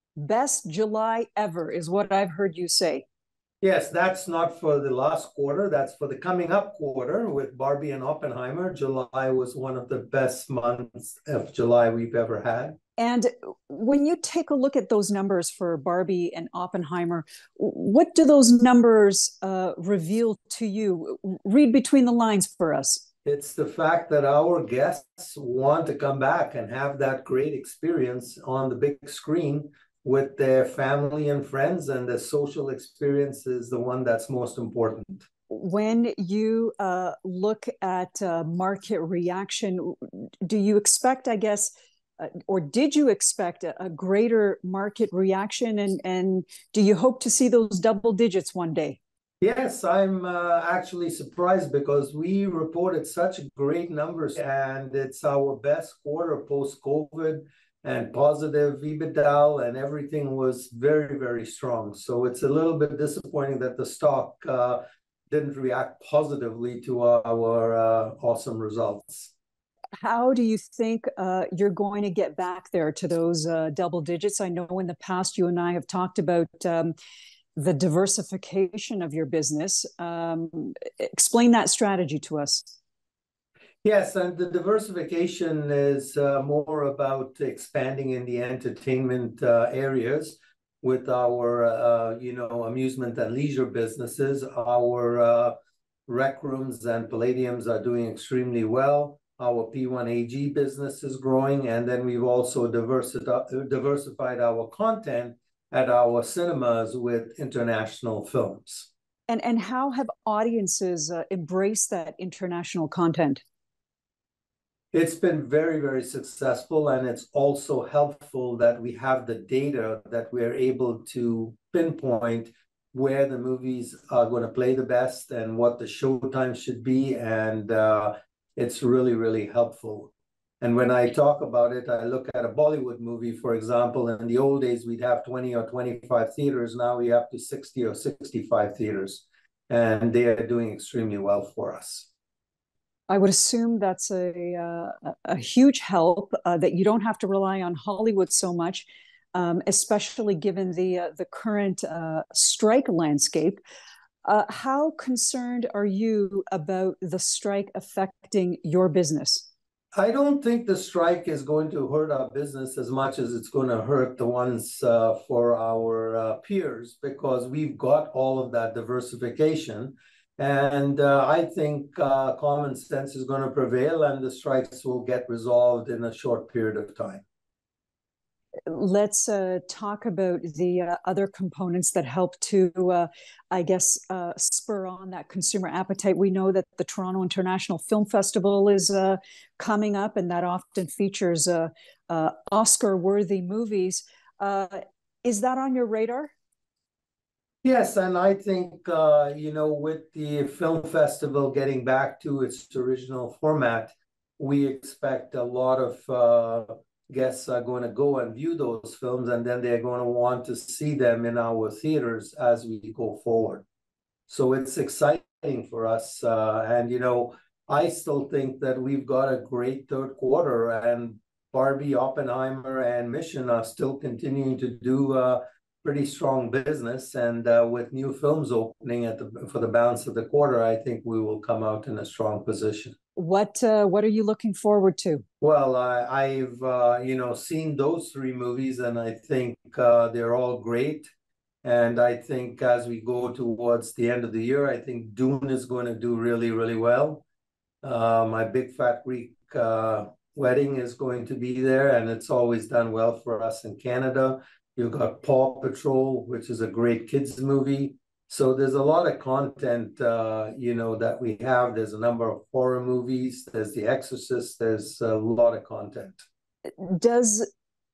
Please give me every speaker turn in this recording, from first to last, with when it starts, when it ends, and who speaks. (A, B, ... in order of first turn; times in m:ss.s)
0:00.2-0:03.0 A
0:03.6-0:12.8 B
0:13.0-0:23.0 A
0:23.2-0:35.2 B
0:35.5-0:49.0 A
0:49.4-1:09.3 B
1:10.0-1:16.9 A
1:17.6-1:22.7 A
1:23.8-1:35.5 B
1:36.1-1:48.9 B
1:49.3-1:53.4 A
1:54.9-2:22.1 B
2:23.1-2:33.6 A
2:34.2-2:39.4 A
2:39.9-2:57.2 B
2:58.6-3:16.3 A
3:17.6-3:33.6 B
3:34.3-3:52.9 B
3:53.2-3:55.2 A
3:55.4-4:01.1 B
4:01.6-4:07.2 B
4:07.8-4:26.2 B
4:26.8-4:27.5 A